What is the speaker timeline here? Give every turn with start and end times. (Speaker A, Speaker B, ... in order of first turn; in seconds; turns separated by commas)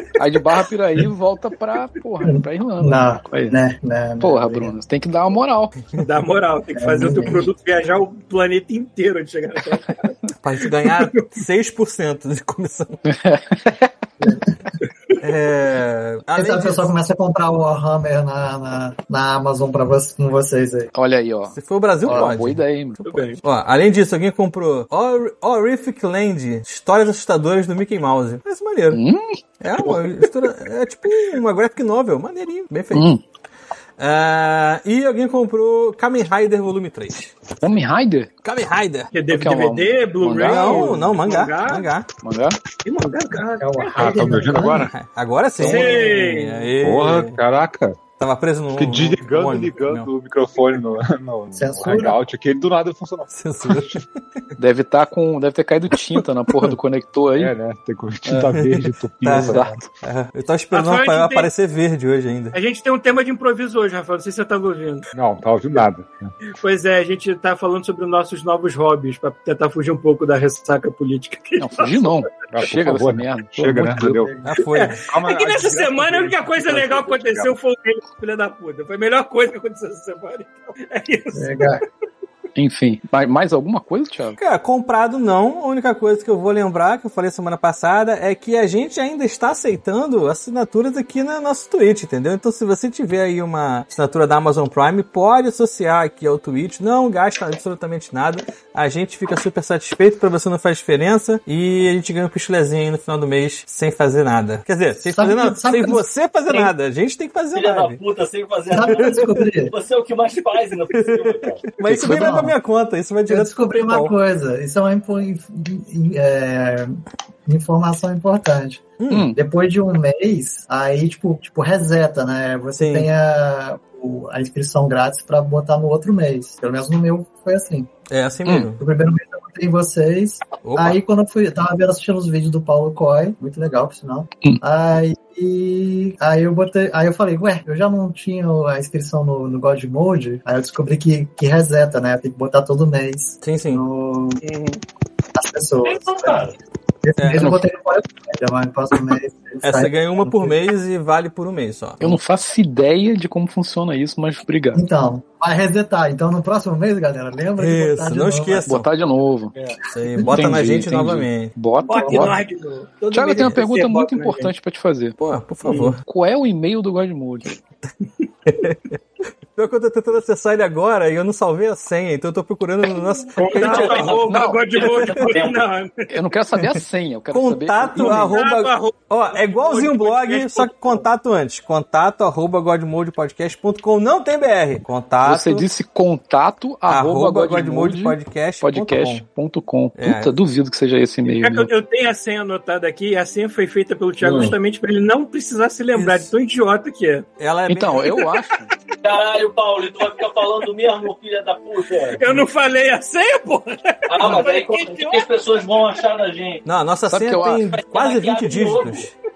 Speaker A: 0.2-3.6, Speaker B: 2.2-4.7, Speaker A: 4.2-5.7, Speaker C: 6.0-10.1, Speaker B: 6.7-7.5, Speaker D: 10.4-12.9, Speaker C: 10.7-11.3, Speaker A: 13.1-13.9, Speaker D: 15.2-16.9, Speaker B: 16.3-20.9, Speaker A: 20.9-23.0, Speaker D: 21.5-29.0, Speaker B: 22.0-22.3, Speaker C: 23.0-23.4, Speaker A: 28.9-29.3, Speaker D: 29.6-33.1, Speaker A: 32.9-33.2, Speaker D: 34.0-37.4, Speaker A: 37.6-38.3, Speaker D: 38.4-39.1, Speaker C: 39.1-41.9, Speaker A: 39.3-41.0, Speaker D: 40.4-42.1, Speaker A: 42.2-42.6, Speaker C: 42.8-44.3, Speaker B: 43.6-44.9, Speaker E: 44.0-44.9, Speaker D: 44.8-47.4, Speaker A: 45.6-46.1, Speaker C: 45.6-46.7, Speaker E: 46.8-48.0, Speaker D: 48.1-50.1, Speaker E: 48.7-54.0, Speaker B: 51.5-52.2, Speaker D: 53.3-54.1, Speaker A: 54.6-57.5, Speaker E: 57.3-59.8, Speaker D: 58.5-62.5, Speaker A: 59.3-59.9, Speaker C: 60.7-61.5, Speaker C: 62.5-65.1, Speaker E: 65.1-66.3, Speaker C: 66.5-72.2, Speaker A: 71.6-74.3, Speaker E: 72.5-74.3, Speaker B: 74.1-74.6, Speaker D: 74.4-75.0, Speaker C: 74.7-81.8, Speaker E: 75.1-77.5, Speaker B: 81.3-81.8, Speaker A: 82.5-84.4, Speaker D: 84.4-108.0, Speaker B: 105.0-106.7, Speaker F: 107.5-111.7, Speaker B: 108.7-109.7, Speaker D: 110.9-114.1, Speaker A: 111.9-112.3, Speaker B: 111.9-112.5, Speaker B: 113.3-127.9, Speaker D: 119.0-119.3, Speaker A: 119.1-119.3, Speaker D: 122.8-123.1, Speaker D: 128.1-128.8, Speaker A: 128.4-128.7, Speaker B: 128.8-144.4, Speaker D: 130.6-131.0, Speaker D: 143.4-143.8, Speaker C: 144.4-144.8, Speaker B: 145.3-150.6, Speaker F: 145.8-146.6, Speaker D: 147.2-147.5, Speaker A: 147.3-147.6, Speaker D: 149.6-152.2, Speaker A: 152.0-154.8, Speaker B: 154.7-158.7, Speaker D: 157.6-158.9, Speaker A: 158.7-159.5, Speaker D: 159.9-161.5, Speaker B: 160.0-160.3, Speaker A: 160.3-162.4, Speaker C: 161.9-164.5, Speaker B: 161.9-162.3, Speaker A: 163.1-165.2, Speaker D: 165.2-166.0, Speaker C: 165.6-165.9, Speaker A: 166.0-167.5, Speaker D: 168.5-168.9, Speaker D: 169.6-174.2, Speaker C: 173.4-175.9, Speaker F: 173.4-175.7, Speaker A: 174.3-174.6, Speaker A: 176.1-178.4, Speaker D: 177.3-185.6, Speaker C: 178.0-181.0, Speaker A: 185.2-191.7, Speaker D: 186.9-189.2, Speaker D: 189.9-190.3, Speaker C: 191.2-197.3, Speaker F: 194.2-194.5, Speaker D: 195.9-196.3, Speaker D: 197.4-198.2, Speaker A: 197.7-198.7, Speaker F: 199.0-202.3, Speaker C: 202.1-205.2, Speaker F: 204.1-206.6, Speaker D: 206.6-209.1, Speaker A: 207.1-207.6, Speaker F: 207.7-209.1